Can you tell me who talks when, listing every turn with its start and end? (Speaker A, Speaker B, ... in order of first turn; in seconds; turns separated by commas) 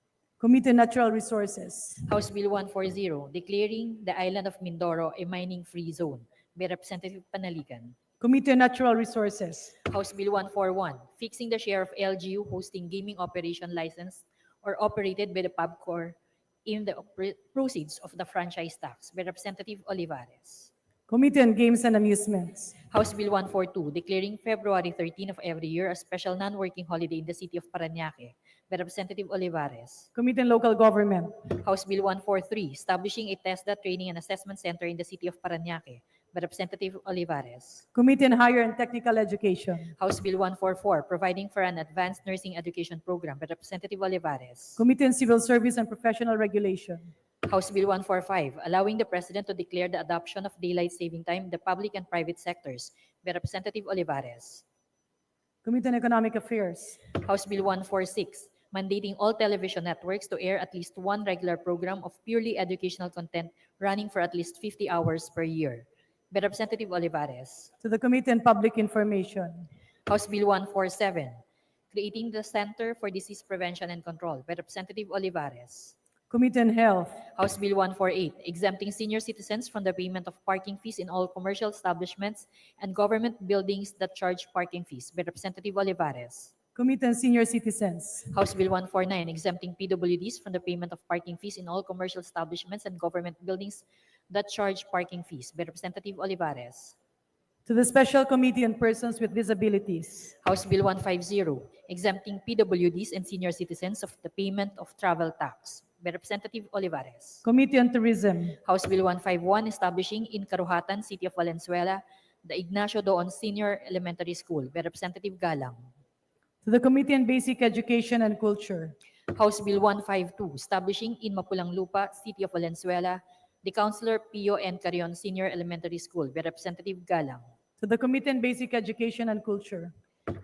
Speaker A: 0.4-2.0, Speaker B: 2.0-8.0, Speaker A: 8.2-9.7, Speaker B: 9.9-20.7, Speaker A: 21.1-22.8, Speaker B: 22.9-30.1, Speaker A: 30.1-31.4, Speaker B: 31.5-37.9, Speaker A: 37.9-39.9, Speaker B: 40.0-44.8, Speaker A: 44.8-47.1, Speaker B: 47.4-54.6, Speaker A: 55.6-57.0, Speaker B: 57.1-67.7, Speaker A: 67.8-69.7, Speaker B: 70.1-71.4, Speaker B: 71.9-75.9, Speaker A: 76.3-77.2, Speaker B: 77.4-86.5, Speaker A: 86.8-88.3, Speaker B: 88.3-97.0, Speaker A: 97.7-100.3, Speaker B: 100.4-107.4, Speaker A: 107.4-108.6, Speaker B: 108.7-115.9, Speaker A: 116.6-119.0, Speaker B: 119.3-127.5, Speaker A: 127.8-129.9